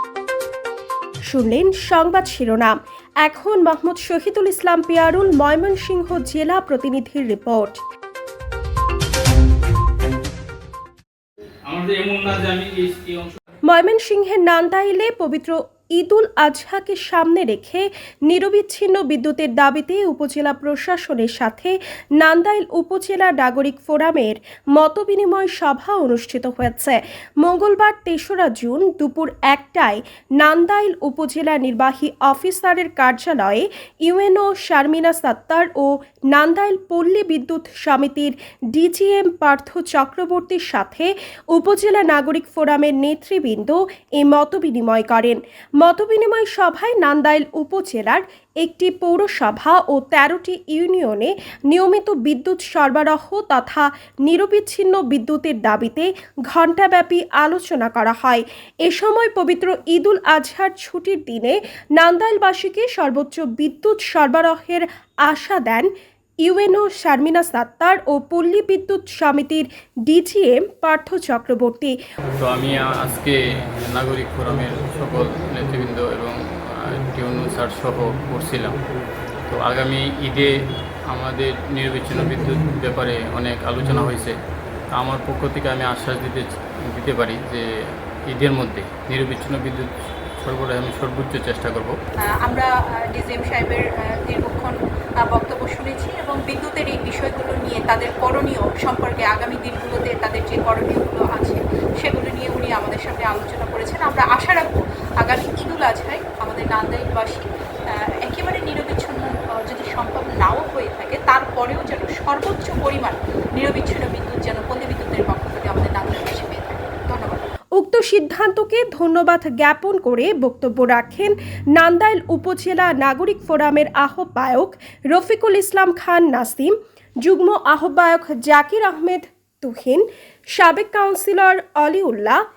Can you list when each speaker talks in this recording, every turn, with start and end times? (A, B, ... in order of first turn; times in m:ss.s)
0:01.3-0:07.8 A
0:11.7-0:13.4 B
0:13.7-1:05.9 A
1:06.4-1:12.0 A
1:12.4-1:18.8 B
1:19.5-1:20.5 B
1:21.1-1:24.4 B
1:24.9-1:27.7 B
1:28.3-1:32.0 B
1:32.2-1:57.5 C
1:57.8-2:06.7 A
2:07.2-2:12.4 A